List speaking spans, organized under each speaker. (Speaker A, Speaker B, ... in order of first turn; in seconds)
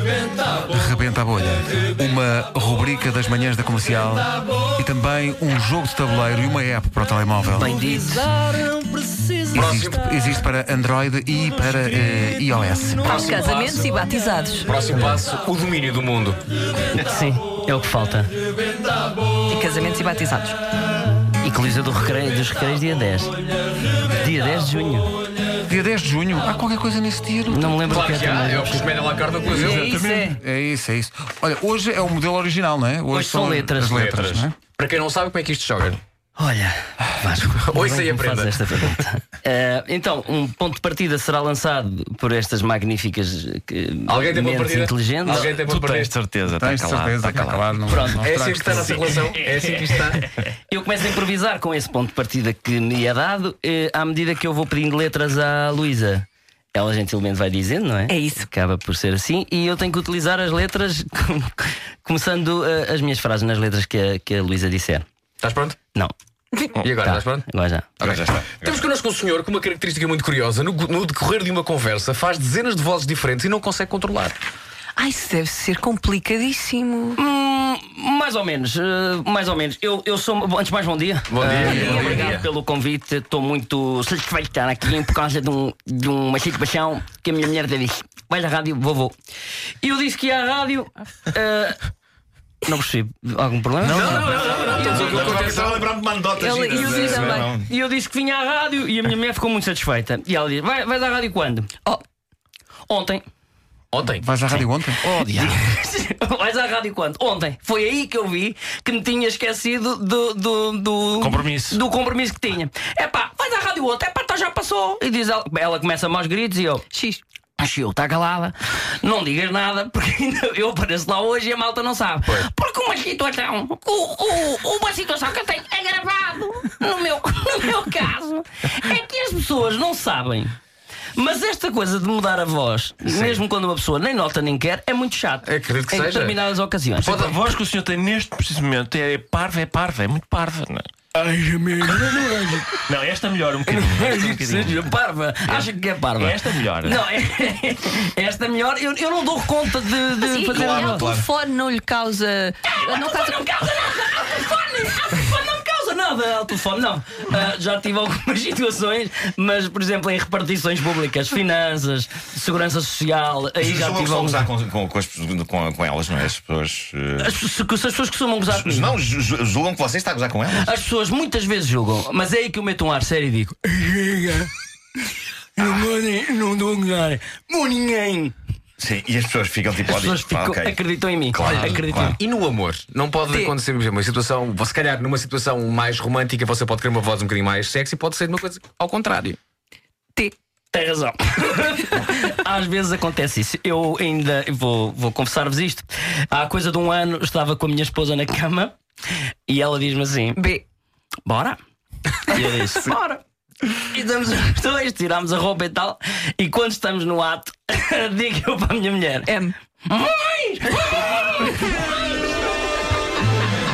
Speaker A: 0.6-7.8, 9.5-13.3, 25.7-27.9, 30.2-34.5, 46.5-49.0, 81.6-81.9, 104.1-105.5
Speaker B: 7.6-8.3, 14.9-15.2, 16.9-18.3, 21.4-23.3, 24.1-25.1, 27.5-28.9, 33.1-34.0, 36.4-45.5, 47.9-48.3, 50.7-65.0, 66.9-67.9, 77.1-89.2, 89.8-91.8, 92.6-95.5, 96.6-101.7, 102.9-103.2, 104.5-116.8, 117.6-130.5, 131.1-137.3, 141.2-142.8, 143.7-151.0, 152.7-164.5, 167.2-169.0, 170.5-174.5, 175.6-178.3, 179.8-182.2, 190.7-198.7, 199.5-200.5, 201.2-201.6, 202.2-203.2, 203.8-212.2
Speaker C: 7.6-9.6, 11.7-12.3, 13.0-13.6
Speaker D: 9.5-10.2, 13.4-13.9, 14.6-16.4, 27.9-30.0, 33.8-36.0, 37.6-38.6, 44.1-46.1, 48.2-50.3, 65.4-65.8, 66.8-67.4, 68.0-74.4, 81.3-82.4, 93.8-95.9, 103.9-104.2, 135.4-136.4, 137.0-137.4, 181.4-189.4
Speaker E: 13.0-14.7, 19.5-20.6, 29.6-30.3, 58.1-58.5, 66.5-66.8, 75.0-77.2, 81.5-82.4, 96.3-97.5, 116.9-117.2, 150.2-153.3, 183.3-183.5, 200.4-200.6, 209.3-209.5
Speaker F: 29.6-30.3, 45.3-47.8, 48.7-50.0, 111.2-111.8, 137.0-140.8, 142.8-144.9, 145.4-147.0
Speaker G: 68.0-68.9, 93.8-97.7, 150.4-151.3, 163.6-167.3, 168.5-170.7, 178.8-180.8, 181.3-182.2